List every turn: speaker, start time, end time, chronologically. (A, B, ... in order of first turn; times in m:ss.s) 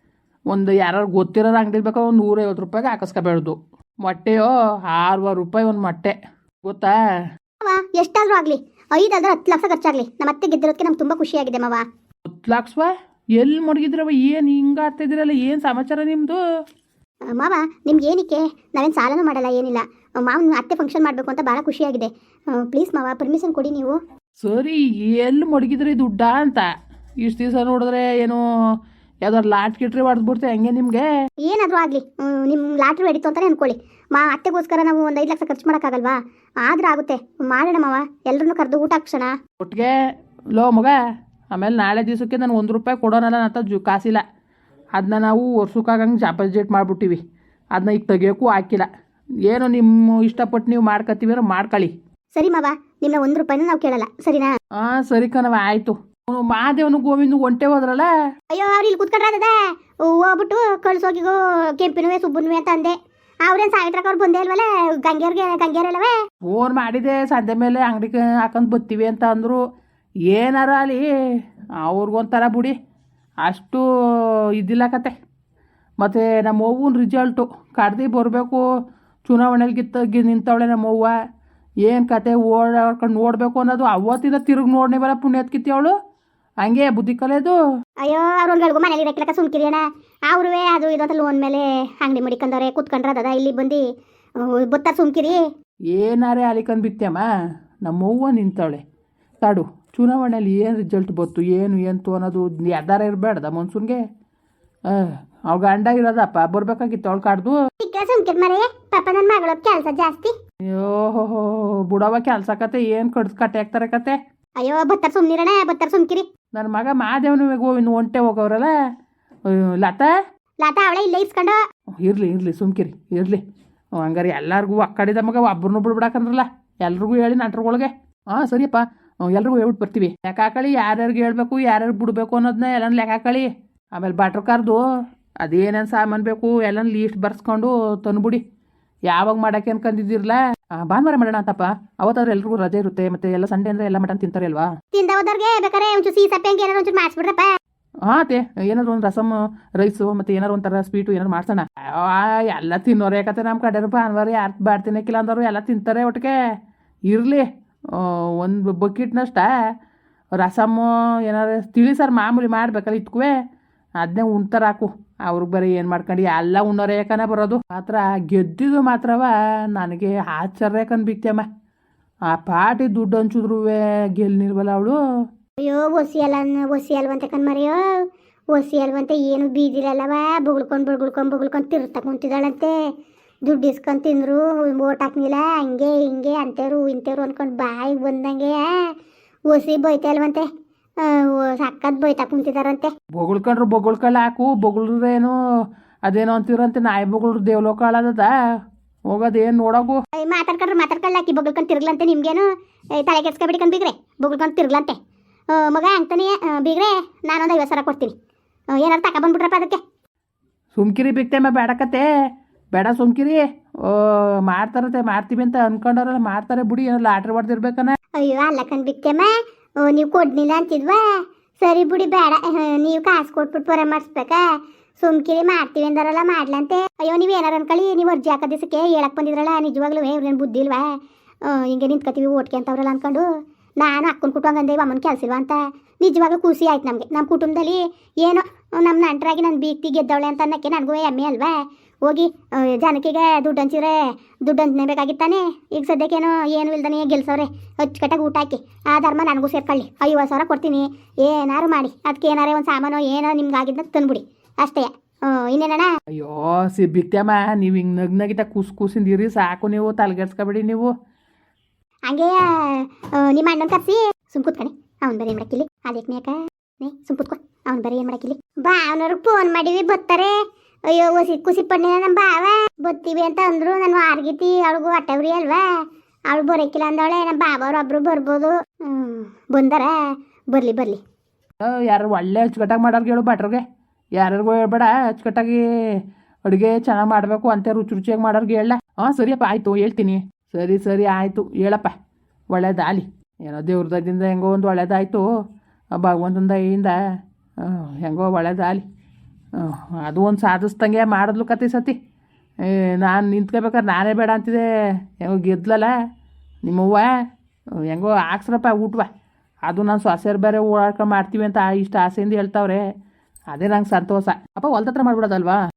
0:00.5-0:07.0 A
0:07.6-0:11.8 B
0:12.2-0:16.4 A
0:17.3-0:24.0 B
0:24.4-0:26.7 A
0:27.2-0:28.4 A
0:29.2-0:31.1 A
0:31.4-0:39.3 B
0:39.6-0:39.9 A
0:40.5-0:41.0 A
0:41.5-0:44.2 A
0:45.0-0:47.2 A
0:47.7-0:48.9 A
0:49.5-0:51.9 A
0:52.3-0:54.5 B
0:54.8-0:58.1 A
0:58.5-1:06.1 B
1:06.4-1:09.6 A
1:10.3-1:11.0 A
1:11.8-1:12.8 A
1:13.4-1:15.1 A
1:16.0-1:18.6 A
1:19.2-1:21.1 A
1:21.8-1:25.9 A
1:26.6-1:27.6 A
1:28.0-1:33.8 B
1:34.4-1:35.5 B
1:35.9-1:37.3 A
1:37.8-1:38.8 A
1:39.4-1:44.0 A
1:44.9-1:47.6 A
1:47.8-1:50.3 B
1:50.7-1:54.2 A
1:54.6-1:56.2 B
1:56.5-1:58.7 A
1:59.4-2:00.1 A
2:00.6-2:01.6 B
2:02.0-2:03.4 A
2:04.0-2:14.8 A
2:15.4-2:18.4 A
2:19.1-2:24.7 A
2:24.9-2:27.5 B
2:28.0-2:36.4 A
2:37.1-2:39.5 A
2:40.4-2:43.3 A
2:44.0-2:51.4 A
2:52.3-2:55.0 A
2:55.6-2:57.9 B
2:58.5-3:02.8 B
3:03.4-3:08.9 B
3:09.5-3:10.4 B
3:11.0-3:12.9 B
3:13.1-3:15.3 A
3:16.0-3:18.3 A
3:19.1-3:20.0 A
3:20.2-3:22.4 B
3:23.0-3:25.0 B
3:25.5-3:28.1 B
3:28.8-3:29.8 B
3:30.7-3:32.1 A
3:32.7-3:38.0 A
3:38.2-3:44.4 B
3:45.0-3:53.3 B
3:53.8-4:15.9 B
4:16.1-4:20.9 A
4:22.1-4:41.0 B
4:41.6-4:43.6 A
4:44.2-4:51.9 A
4:52.5-4:55.2 A
4:56.0-4:57.0 A
4:57.6-4:58.8 A
4:59.6-5:02.0 A
5:02.6-5:05.9 A
5:06.6-5:07.2 A
5:07.8-5:09.1 A
5:09.6-5:12.9 A
5:13.5-5:15.6 A